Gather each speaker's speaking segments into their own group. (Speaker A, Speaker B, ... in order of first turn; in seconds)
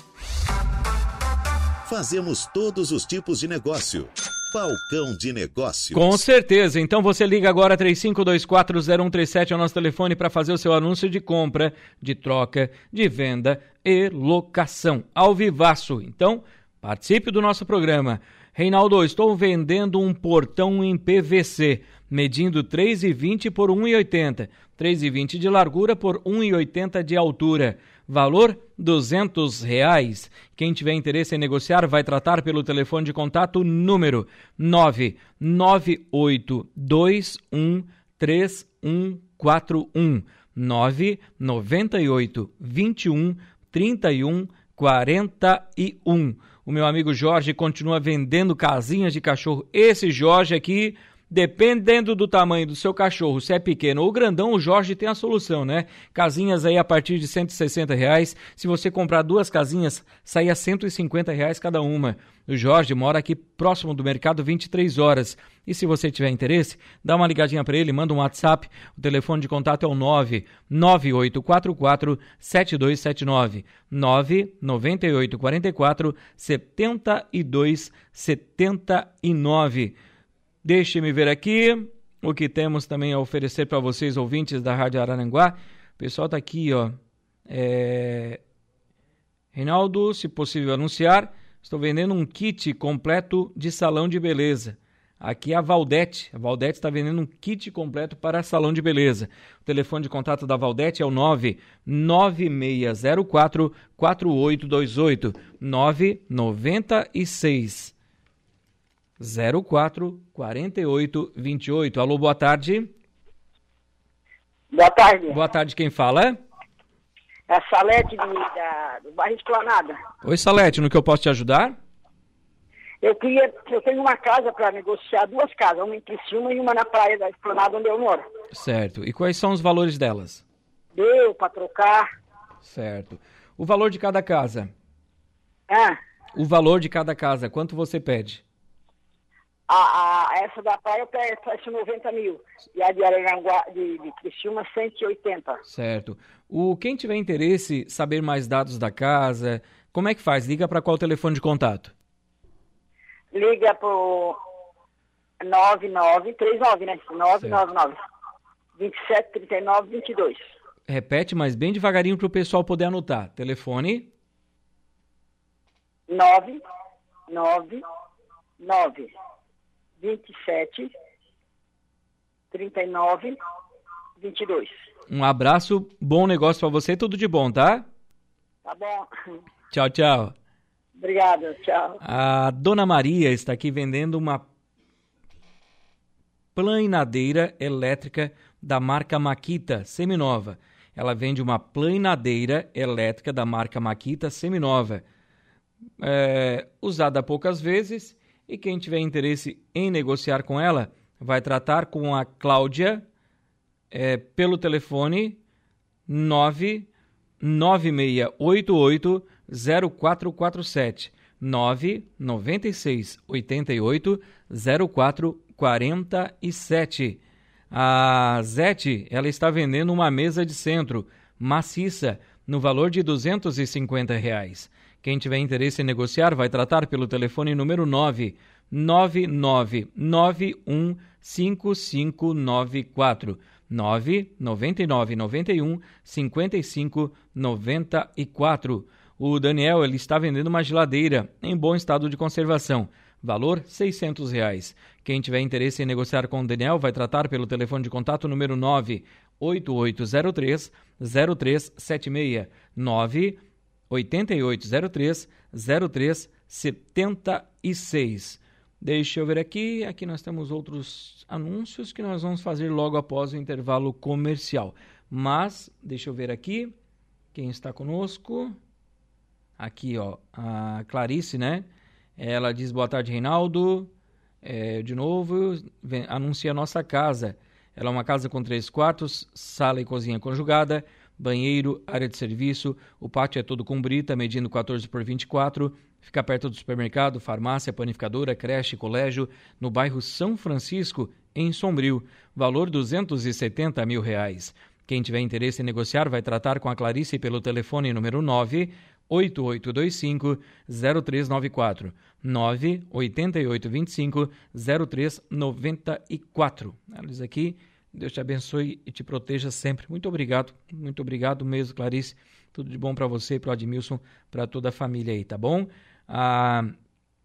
Speaker A: 1.8-6.2
Speaker B: 5.9-80.0, 80.6-88.4, 89.5-107.9, 109.2-112.9, 115.3-116.4, 120.2-121.8, 128.5-130.4, 132.6-134.7, 136.3-138.4, 145.7-151.9, 160.9-164.1, 175.1-177.8, 179.7-180.3, 182.0-184.4, 186.5-195.0, 196.0-203.0, 203.9-205.4, 206.1-206.9, 207.4-217.2, 217.7-266.7, 267.3-268.6, 269.6-271.7, 272.2-273.9, 274.4-316.7
Speaker C: 114.7-115.4, 117.5-120.0, 123.0-128.2, 130.9-132.1, 135.7-136.0, 139.7-145.6, 153.3-154.4, 155.4-158.0, 158.8-160.4, 166.1-166.6, 167.3-167.8, 168.6-169.1, 170.0-170.9, 172.5-173.3, 174.2-174.8, 178.6-179.1, 181.0-182.0